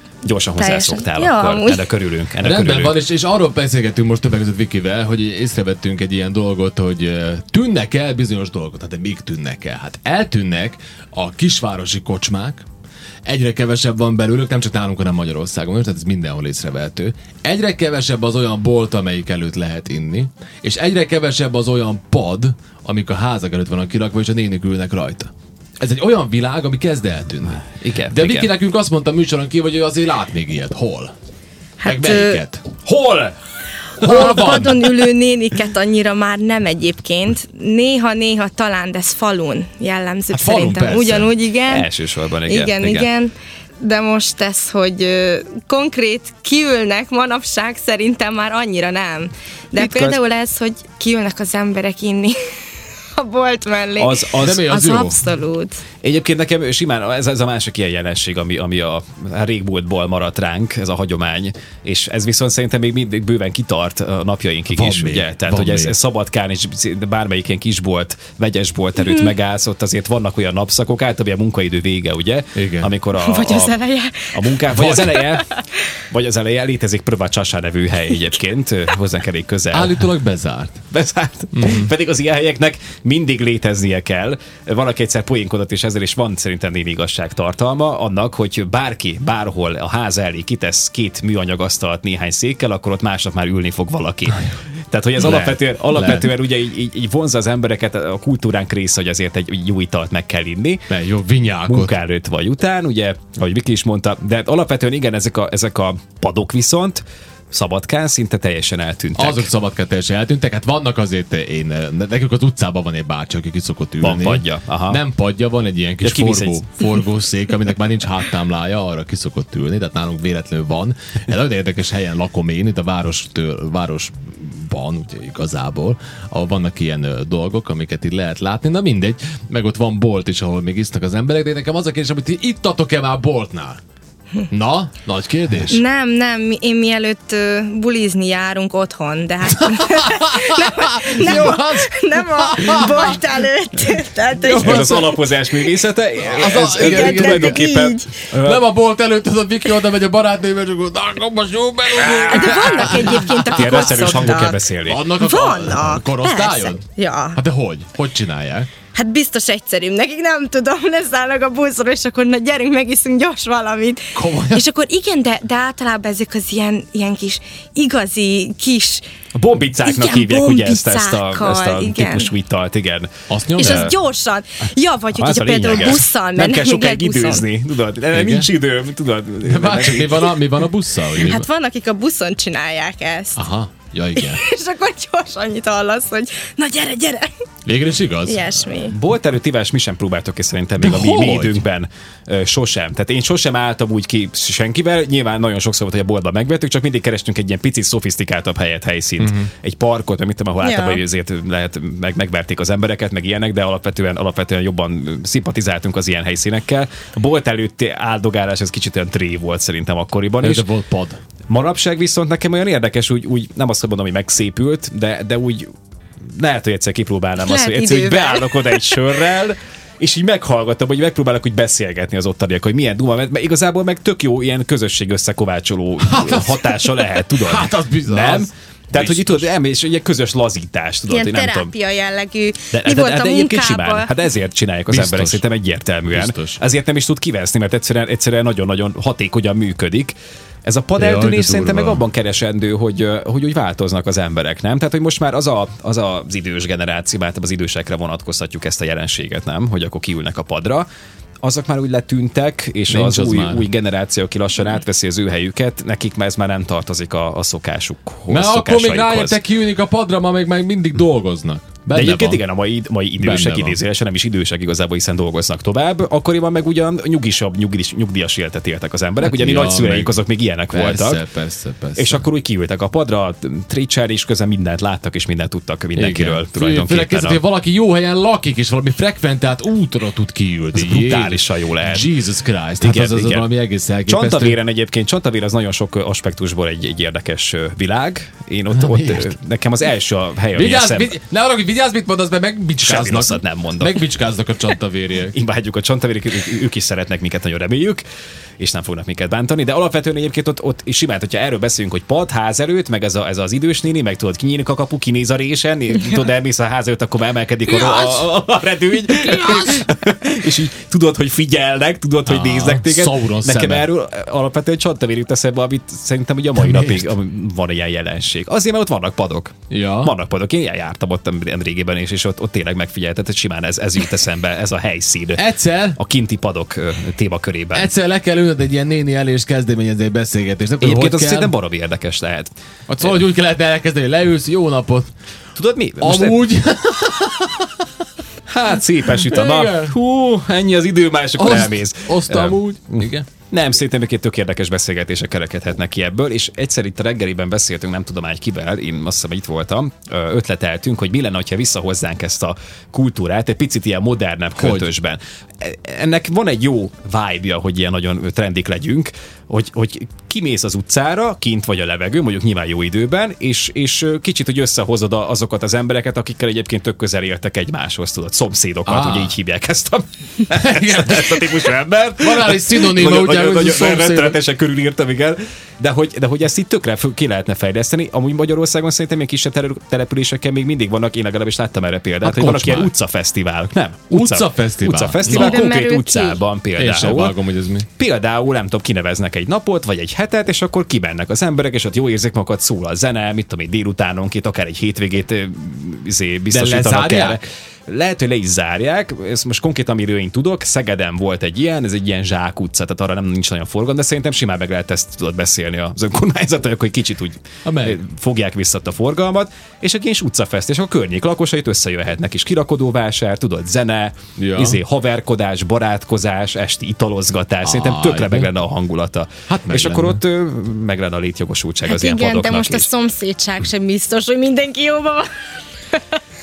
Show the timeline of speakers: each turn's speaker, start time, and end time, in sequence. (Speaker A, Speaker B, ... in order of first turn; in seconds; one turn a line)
Speaker A: 0.2-3.0
Speaker B: 0.6-1.9
Speaker C: 2.4-12.7
Speaker C: 13.2-31.1
Speaker A: 27.6-28.5
Speaker B: 31.8-32.4
Speaker C: 31.9-32.8
Speaker A: 32.9-33.3
Speaker C: 34.0-35.1
Speaker B: 34.0-41.9
Speaker C: 40.3-41.3
Speaker A: 41.7-43.1
Speaker B: 42.4-52.4
Speaker A: 49.8-50.2
Speaker B: 53.1-55.8
Speaker A: 54.0-54.6
Speaker C: 54.4-55.2
Speaker A: 56.0-75.5
Speaker C: 64.7-65.9
Speaker B: 69.0-69.3
Speaker C: 72.5-72.9
Speaker B: 73.2-74.6
Speaker C: 74.7-75.1
Speaker B: 75.2-75.6
Speaker A: 76.1-80.0
Speaker C: 79.7-80.8
Speaker A: 80.9-100.9
Speaker C: 81.5-81.9
Speaker C: 95.2-96.3
Speaker C: 100.9-101.9
Speaker A: 101.7-109.5
Speaker C: 109.2-133.8
Speaker A: 114.0-115.0
Speaker A: 116.0-116.6
Speaker C: 134.5-135.8
Speaker B: 135.7-145.2
Speaker C: 139.7-143.2
Speaker A: 144.4-148.7
Speaker C: 144.5-145.0
Speaker C: 146.2-147.6
Speaker B: 146.6-148.1
Speaker C: 148.3-156.8
Speaker B: 151.9-154.6
Speaker A: 152.3-155.0
Speaker B: 155.1-157.4
Speaker C: 157.3-158.7
Speaker B: 158.9-169.1
Speaker C: 164.1-164.7
Speaker A: 169.3-173.9
Speaker B: 169.8-172.3
Speaker C: 173.3-173.9
Speaker B: 173.6-177.4
Speaker A: 175.2-180.3
Speaker C: 178.1-178.5
Speaker C: 179.4-181.5
Speaker B: 181.1-183.4
Speaker C: 183.3-184.4
Speaker B: 184.2-187.3
Speaker C: 187.7-188.5
Speaker B: 188.3-188.9
Speaker A: 188.8-210.7
Speaker C: 190.8-191.6
Speaker C: 199.2-199.5
Speaker B: 200.6-201.0
Speaker C: 210.4-211.2
Speaker A: 211.5-215.7
Speaker A: 216.3-231.7
Speaker B: 217.4-219.1
Speaker C: 226.0-229.5
Speaker B: 231.1-234.1
Speaker A: 232.7-250.9
Speaker C: 234.9-235.5
Speaker C: 236.1-236.6
Speaker C: 241.0-242.0
Speaker A: 251.4-259.4
Speaker C: 252.9-253.7
Speaker C: 258.3-262.4
Speaker A: 261.9-271.2
Speaker C: 263.2-263.8
Speaker C: 269.2-270.2
Speaker C: 270.7-272.2
Speaker A: 271.9-277.4
Speaker C: 275.9-284.6
Speaker A: 280.7-282.1
Speaker A: 282.8-283.5
Speaker A: 284.1-291.1
Speaker C: 288.7-289.3
Speaker C: 290.5-295.4
Speaker A: 292.8-294.0
Speaker A: 295.3-298.0
Speaker A: 298.6-325.4
Speaker B: 307.8-308.1
Speaker C: 312.2-313.9
Speaker C: 316.6-317.1
Speaker C: 319.7-320.1
Speaker C: 325.4-326.0
Speaker A: 325.9-327.9
Speaker C: 327.7-331.5
Speaker A: 330.8-332.5
Speaker C: 332.9-335.1
Speaker A: 335.6-336.5
Speaker C: 336.0-337.8
Speaker A: 338.5-387.4
Speaker C: 339.1-339.9
Speaker C: 341.4-343.3
Speaker C: 354.6-354.9
Speaker C: 368.9-369.3
Speaker C: 370.5-374.4
Speaker C: 382.2-382.9
Speaker C: 384.1-385.6
Speaker B: 385.2-386.4
Speaker C: 386.8-387.9
Speaker A: 388.0-422.9
Speaker C: 396.5-397.4
Speaker C: 407.6-408.0
Speaker C: 414.4-414.8
Speaker C: 417.6-418.5
Speaker C: 419.5-420.2
Speaker B: 421.9-425.3
Speaker B: 425.9-426.2